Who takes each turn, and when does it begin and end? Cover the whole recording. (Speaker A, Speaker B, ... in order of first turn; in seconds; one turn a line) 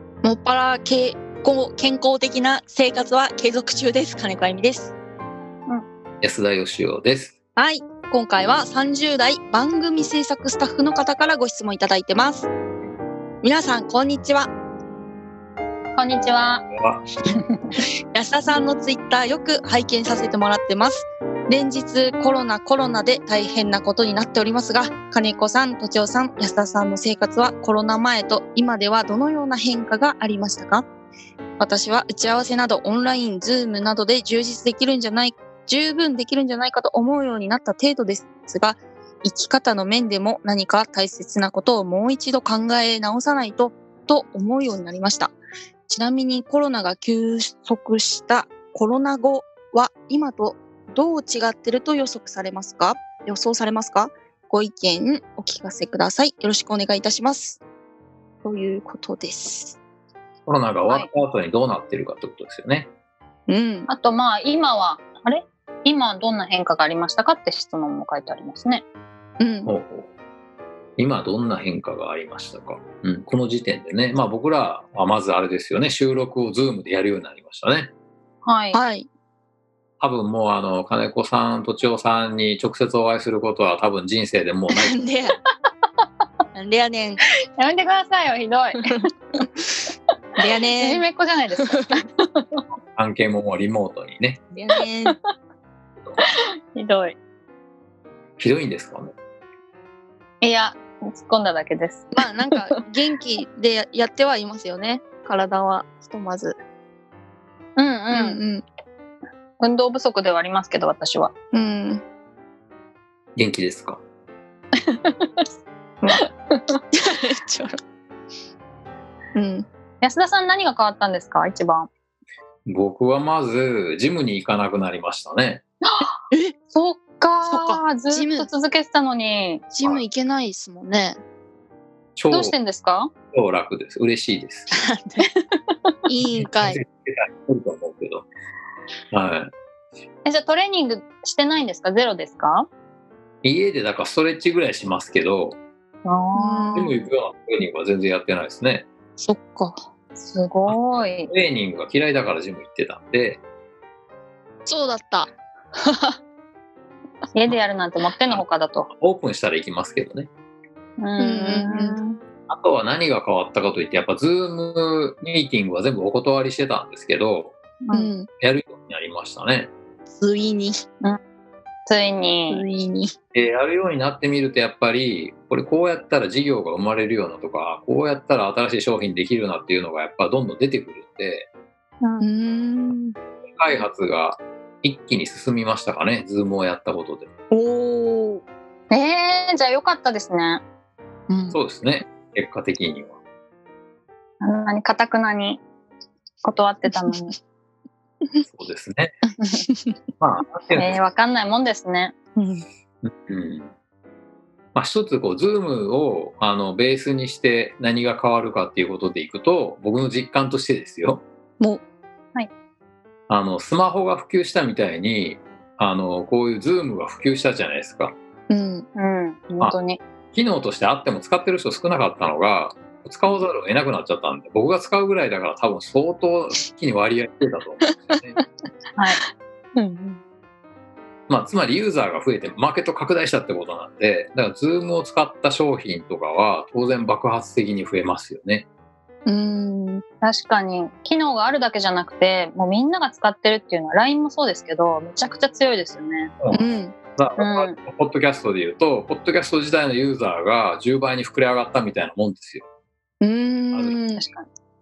Speaker A: 0.2-4.9
Speaker B: 6.2-7.3
Speaker A: 7.5-12.5
Speaker A: 13.4-14.5
Speaker C: 15.9-16.6
Speaker B: 16.8-17.0
Speaker C: 17.3-17.7
Speaker A: 18.1-30.9
Speaker A: 31.6-45.4
Speaker A: 45.9-57.6
Speaker A: 58.4-59.8
Speaker B: 60.5-62.9
Speaker A: 63.5-63.9
Speaker C: 63.9-68.8
Speaker A: 69.4-69.7
Speaker B: 69.7-70.1
Speaker B: 71.0-77.9
Speaker C: 78.4-78.8
Speaker A: 78.7-79.1
Speaker B: 80.0-85.0
Speaker A: 84.7-85.3
Speaker A: 86.5-87.2
Speaker C: 87.6-88.9
Speaker A: 90.4-92.0
Speaker C: 90.8-92.6
Speaker B: 92.9-94.4
Speaker A: 94.5-95.2
Speaker C: 96.2-97.2
Speaker B: 98.4-99.1
Speaker C: 100.4-102.2
Speaker A: 102.1-106.6
Speaker C: 107.8-108.4
Speaker A: 108.1-108.6
Speaker C: 109.6-111.3
Speaker A: 111.5-112.0
Speaker B: 113.3-114.0
Speaker C: 114.8-115.5
Speaker C: 116.1-116.8
Speaker A: 117.0-117.8
Speaker A: 119.3-119.7
Speaker C: 120.0-121.9
Speaker B: 122.7-125.6
Speaker C: 125.8-126.1
Speaker C: 126.7-129.7
Speaker A: 127.4-128.5
Speaker A: 129.7-131.2
Speaker B: 132.2-132.6
Speaker C: 132.3-133.1
Speaker B: 133.3-134.7
Speaker A: 134.7-135.3
Speaker C: 135.3-135.9
Speaker A: 136.1-136.8
Speaker B: 136.3-138.3
Speaker B: 139.1-139.5
Speaker C: 140.2-142.7
Speaker B: 143.4-145.6
Speaker C: 146.0-147.0
Speaker A: 146.3-146.9
Speaker B: 146.7-148.9
Speaker A: 149.2-149.8
Speaker C: 150.2-151.3
Speaker B: 150.7-153.4
Speaker A: 154.7-156.1
Speaker C: 157.3-158.9
Speaker B: 158.2-160.3
Speaker C: 161.0-162.2
Speaker A: 161.2-162.0
Speaker B: 162.5-167.6
Speaker C: 167.8-168.1
Speaker A: 167.9-168.3
Speaker B: 168.3-169.7
Speaker A: 170.1-170.8
Speaker C: 171.8-172.6
Speaker A: 172.5-173.1
Speaker B: 173.3-181.5
Speaker A: 182.2-183.2
Speaker B: 183.4-187.3
Speaker A: 187.5-188.4
Speaker C: 188.9-190.6
Speaker A: 191.3-191.6
Speaker B: 191.5-193.2
Speaker C: 194.4-195.6
Speaker C: 196.4-197.3
Speaker A: 196.9-197.3
Speaker B: 198.4-199.2
Speaker A: 199.6-199.9
Speaker B: 200.2-201.0
Speaker C: 200.7-202.1
Speaker A: 202.3-202.6
Speaker B: 203.0-203.7
Speaker B: 204.7-211.2
Speaker B: 213.3-218.2
Speaker A: 218.5-218.9
Speaker C: 218.9-220.0
Speaker B: 220.3-228.4
Speaker C: 228.9-229.2
Speaker A: 229.8-230.2
Speaker B: 231.3-238.7
Speaker A: 239.2-240.0
Speaker C: 240.2-246.3
Speaker B: 246.4-252.6
Speaker A: 246.5-246.9
Speaker C: 247.4-247.8
Speaker A: 253.2-254.2
Speaker B: 253.7-254.0
Speaker C: 254.2-254.4